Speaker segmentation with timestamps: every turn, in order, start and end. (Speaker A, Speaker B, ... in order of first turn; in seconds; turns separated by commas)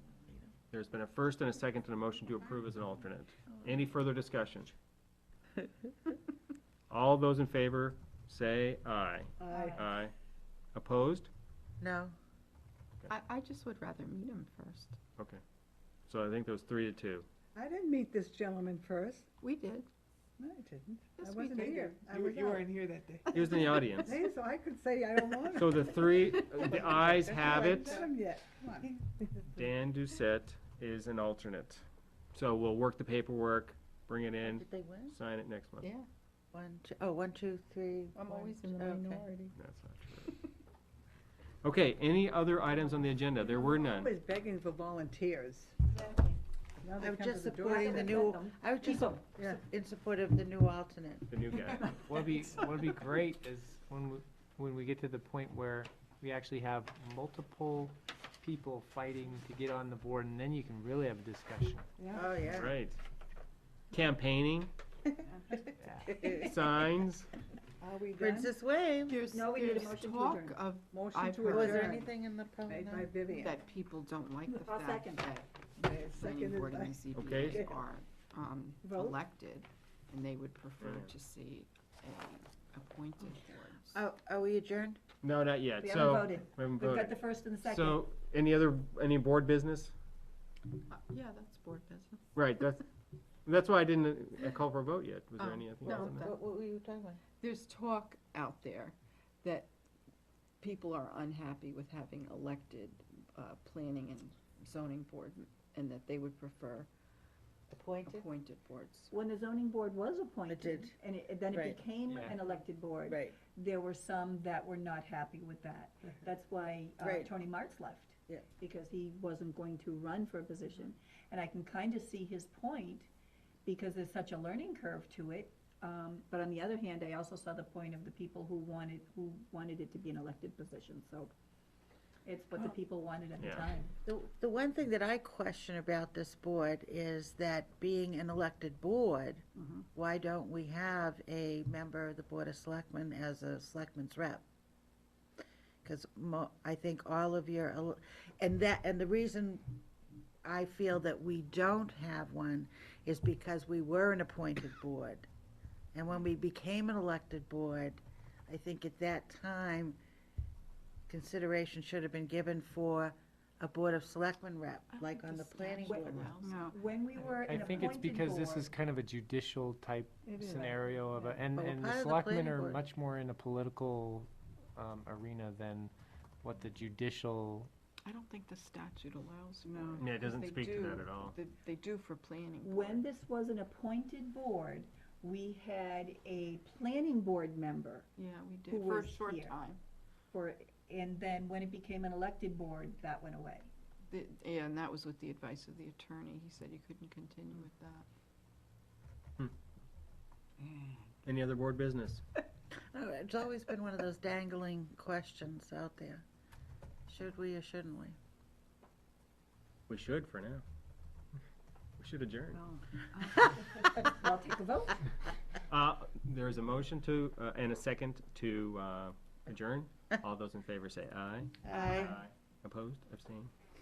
Speaker A: 0.1-0.5, Speaker B: 0.7-4.7, Speaker B: 6.9-10.1, Speaker C: 9.4-9.8, Speaker D: 9.5-9.8, Speaker B: 10.7-11.3, Speaker A: 11.8-12.1, Speaker E: 13.1-15.0, Speaker B: 16.1-17.3, Speaker C: 17.5-19.3, Speaker E: 19.4-19.9, Speaker C: 20.4-29.6, Speaker E: 21.2-22.6, Speaker B: 23.3-24.2, Speaker E: 23.4-24.0, Speaker B: 25.5-28.1, Speaker B: 29.5-35.9, Speaker A: 34.4-35.1, Speaker E: 35.8-36.1, Speaker A: 36.5-39.3, Speaker E: 38.1-39.5, Speaker B: 39.5-40.3, Speaker B: 41.6-44.1, Speaker C: 43.3-45.8, Speaker D: 45.9-46.4, Speaker C: 46.8-48.0, Speaker A: 47.0-51.3, Speaker D: 47.6-49.3, Speaker B: 51.3-51.9, Speaker F: 52.0-61.9, Speaker C: 62.0-62.5, Speaker A: 62.1-62.7, Speaker B: 62.5-63.0, Speaker B: 63.9-64.7, Speaker E: 65.3-65.7, Speaker F: 65.8-66.1, Speaker A: 66.0-66.5, Speaker B: 66.2-67.3, Speaker C: 67.8-68.5, Speaker A: 68.2-69.2, Speaker E: 69.1-72.1, Speaker D: 69.3-70.6, Speaker C: 70.9-72.1, Speaker A: 71.4-73.1, Speaker C: 72.7-73.6, Speaker E: 72.7-84.0, Speaker D: 74.6-75.2, Speaker C: 75.8-77.7, Speaker B: 77.1-77.7, Speaker D: 78.8-79.1, Speaker B: 80.8-81.1, Speaker A: 83.9-85.0, Speaker B: 85.2-89.9, Speaker D: 85.8-88.0, Speaker E: 90.9-92.2, Speaker B: 92.3-92.8, Speaker B: 93.4-96.3, Speaker E: 95.4-96.5, Speaker A: 95.9-97.2, Speaker E: 97.4-99.7, Speaker E: 100.6-106.9, Speaker A: 107.7-108.2, Speaker E: 108.0-109.1, Speaker D: 109.1-123.1, Speaker A: 110.5-110.9, Speaker A: 111.5-111.8, Speaker F: 112.1-112.4, Speaker A: 113.1-113.4, Speaker A: 117.0-117.3, Speaker D: 123.6-131.3, Speaker D: 132.2-133.9, Speaker B: 133.4-133.7, Speaker A: 134.1-144.4, Speaker A: 145.8-149.8, Speaker A: 150.4-155.2, Speaker A: 155.9-160.0, Speaker A: 161.1-166.5, Speaker E: 164.9-166.8, Speaker D: 165.8-168.7, Speaker F: 167.4-177.7, Speaker C: 170.2-171.3, Speaker A: 171.5-172.8, Speaker E: 178.0-183.0, Speaker C: 179.7-180.1, Speaker B: 180.0-181.3, Speaker D: 182.6-188.1, Speaker E: 188.2-189.8, Speaker D: 188.7-189.6, Speaker D: 190.3-193.7, Speaker E: 194.1-198.1, Speaker E: 200.6-201.1, Speaker B: 201.2-202.2, Speaker A: 202.9-206.2, Speaker A: 207.1-208.2, Speaker B: 209.9-210.6, Speaker B: 212.0-212.6, Speaker E: 212.5-213.9, Speaker D: 213.7-215.1, Speaker B: 215.7-223.5, Speaker A: 221.6-222.2